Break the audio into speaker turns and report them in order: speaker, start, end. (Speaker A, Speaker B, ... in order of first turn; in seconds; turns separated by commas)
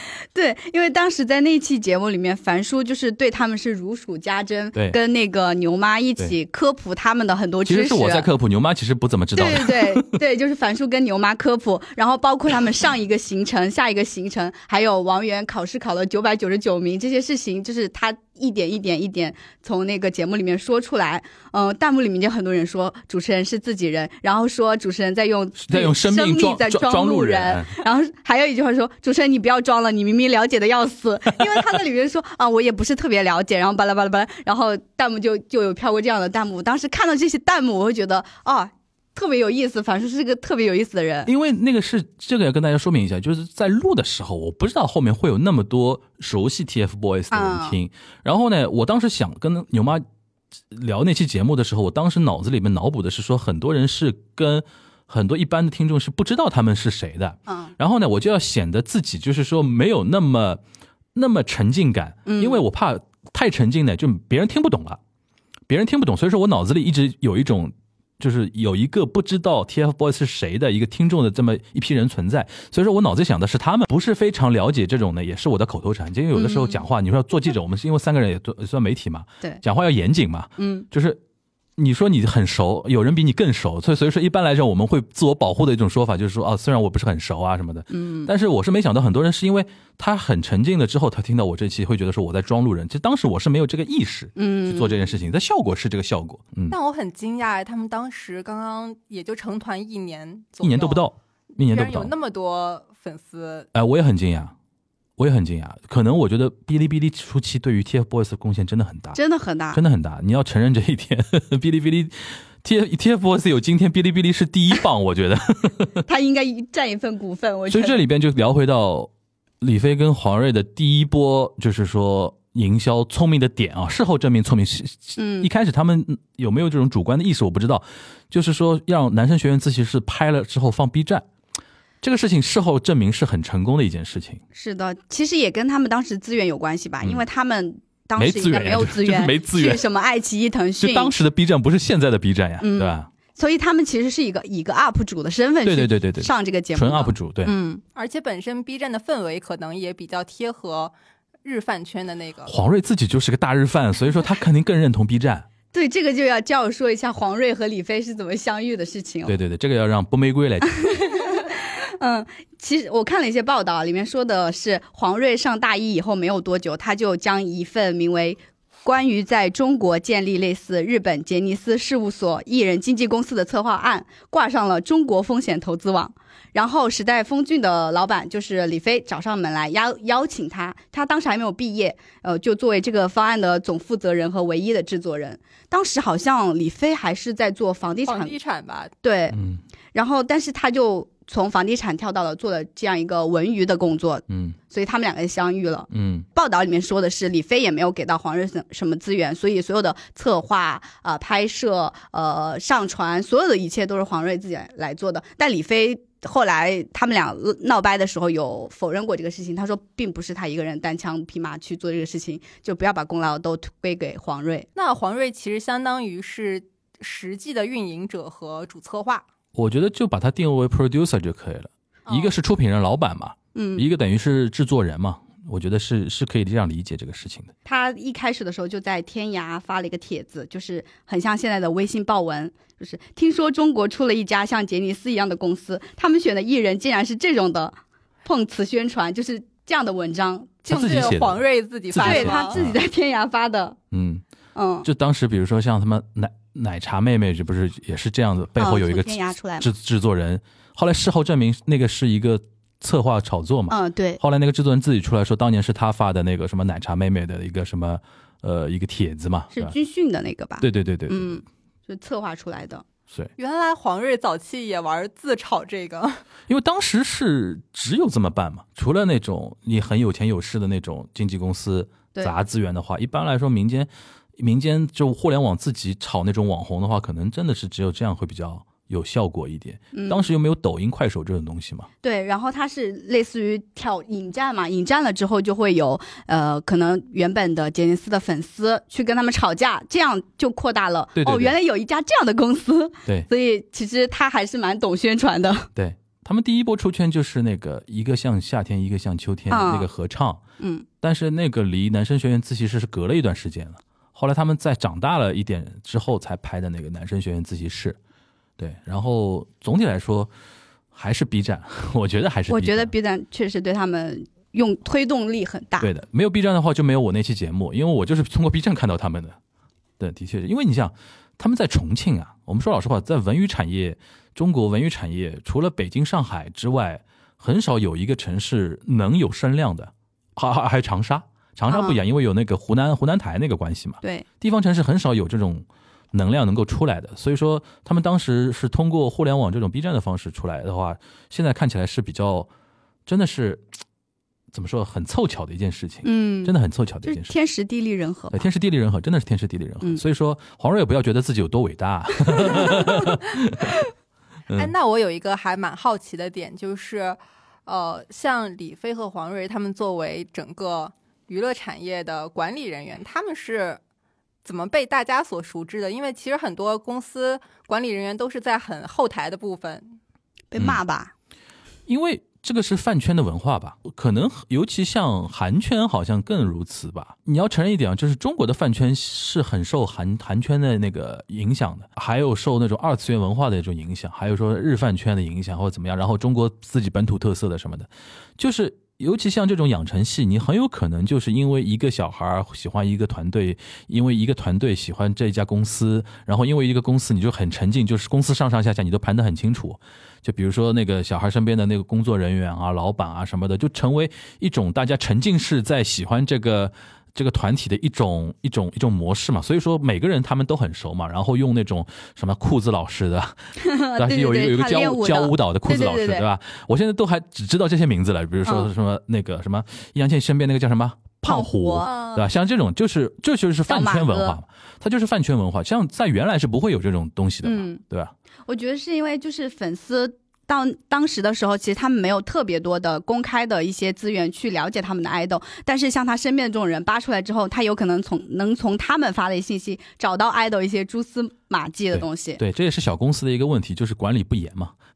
Speaker A: 0.3-8.3, Speaker B: 7.7-10.2, Speaker A: 9.3-41.3, Speaker B: 25.6-27.8, Speaker B: 41.3-50.0, Speaker A: 47.3-47.8, Speaker B: 50.7-60.6, Speaker A: 57.5-57.7, Speaker B: 61.1-65.0, Speaker A: 62.3-62.6, Speaker B: 65.7-81.2, Speaker A: 76.3-76.8, Speaker A: 80.6-80.9, Speaker B: 81.8-96.8, Speaker A: 87.9-88.3, Speaker A: 94.4-95.0, Speaker C: 96.7-103.7, Speaker B: 100.6-102.1, Speaker B: 103.7-104.5, Speaker B: 105.2-109.2, Speaker A: 109.1-109.8, Speaker B: 109.7-116.0, Speaker A: 116.1-118.0, Speaker B: 117.7-131.3, Speaker A: 125.2-125.5, Speaker B: 132.0-134.4, Speaker A: 134.5-141.1, Speaker B: 138.2-139.8, Speaker B: 140.8-143.1, Speaker A: 142.6-147.8, Speaker B: 145.7-147.5, Speaker C: 147.9-152.5, Speaker B: 152.5-155.5, Speaker A: 155.7-159.4, Speaker B: 159.3-161.1, Speaker A: 160.9-188.3, Speaker C: 188.1-188.9, Speaker A: 189.0-189.4, Speaker B: 189.3-189.6, Speaker A: 189.9-214.7, Speaker B: 194.3-194.6, Speaker B: 195.9-196.3, Speaker C: 214.8-219.2, Speaker B: 219.6-227.5, Speaker A: 223.6-223.9, Speaker A: 227.7-241.2, Speaker C: 240.7-242.5, Speaker B: 240.7-242.8, Speaker A: 242.0-243.8, Speaker B: 243.9-244.2, Speaker A: 244.6-244.9, Speaker B: 244.8-259.7, Speaker A: 248.6-249.7, Speaker A: 253.7-254.2, Speaker A: 259.5-262.9, Speaker B: 260.6-261.4, Speaker C: 263.4-266.2, Speaker B: 266.5-281.9, Speaker A: 279.9-280.3, Speaker A: 282.0-295.7, Speaker B: 291.2-291.6, Speaker B: 295.8-300.4, Speaker A: 299.5-299.9, Speaker A: 300.6-300.9, Speaker B: 301.0-308.0, Speaker B: 308.6-310.3, Speaker B: 310.9-312.9, Speaker A: 312.5-315.9, Speaker B: 315.8-319.4, Speaker B: 320.0-342.5, Speaker A: 331.7-332.0, Speaker B: 343.1-343.7, Speaker B: 344.5-347.4, Speaker A: 346.0-348.5, Speaker B: 348.3-353.7, Speaker C: 354.6-363.8, Speaker C: 364.4-370.0, Speaker A: 370.5-371.1, Speaker B: 371.9-413.4, Speaker A: 413.6-416.3, Speaker B: 414.0-428.1, Speaker A: 421.2-422.3, Speaker A: 423.7-424.4, Speaker A: 427.4-427.8, Speaker A: 428.5-442.4, Speaker B: 441.9-444.8